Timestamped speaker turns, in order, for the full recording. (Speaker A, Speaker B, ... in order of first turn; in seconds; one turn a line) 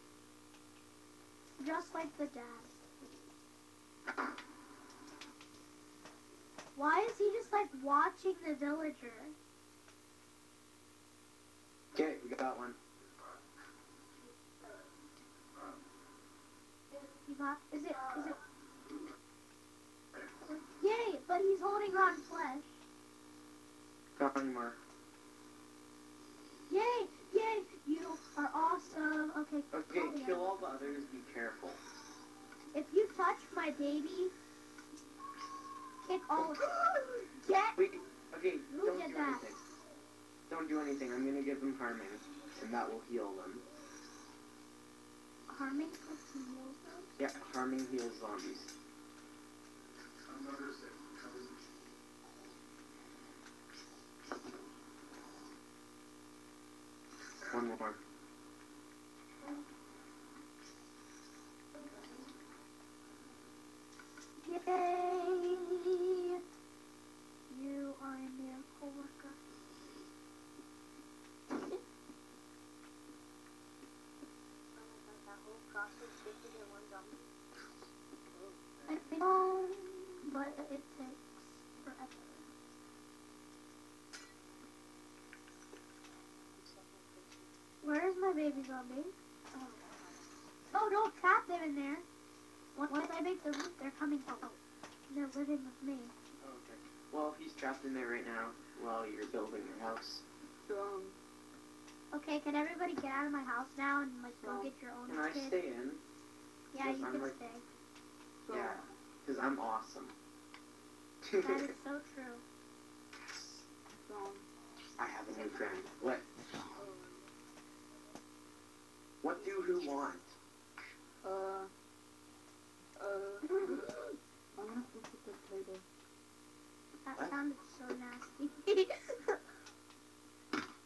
Speaker A: 1.6-2.7
Speaker A: 6.8-9.3
Speaker B: 11.9-12.8
Speaker A: 17.2-18.4
Speaker A: 20.4-22.8
Speaker B: 24.2-24.8
Speaker A: 26.7-30.6
Speaker B: 29.7-31.8
Speaker A: 32.7-34.3
Speaker A: 36.0-37.8
Speaker B: 37.8-39.6
Speaker A: 38.7-39.4
Speaker B: 40.5-43.6
Speaker A: 45.5-47.1
Speaker B: 47.2-48.7
Speaker B: 57.5-58.0
Speaker A: 64.4-66.4
Speaker A: 67.5-69.4
Speaker C: 74.8-77.3
Speaker C: 78.3-78.8
Speaker A: 78.9-82.5
Speaker C: 86.6-87.5
Speaker A: 87.8-89.8
Speaker A: 90.7-92.0
Speaker A: 92.8-96.1
Speaker B: 96.4-100.2
Speaker C: 100.7-101.2
Speaker A: 102.1-105.6
Speaker C: 104.4-104.7
Speaker B: 105.1-106.0
Speaker A: 106.7-107.7
Speaker B: 106.8-107.4
Speaker C: 108.5-108.8
Speaker B: 108.5-110.1
Speaker B: 111.2-111.7
Speaker A: 111.4-112.4
Speaker B: 113.2-113.7
Speaker C: 114.0-114.5
Speaker B: 115.0-116.3
Speaker C: 116.8-117.3
Speaker B: 119.2-120.3
Speaker C: 121.2-121.7
Speaker C: 123.0-125.8
Speaker A: 123.5-123.8
Speaker A: 127.0-129.4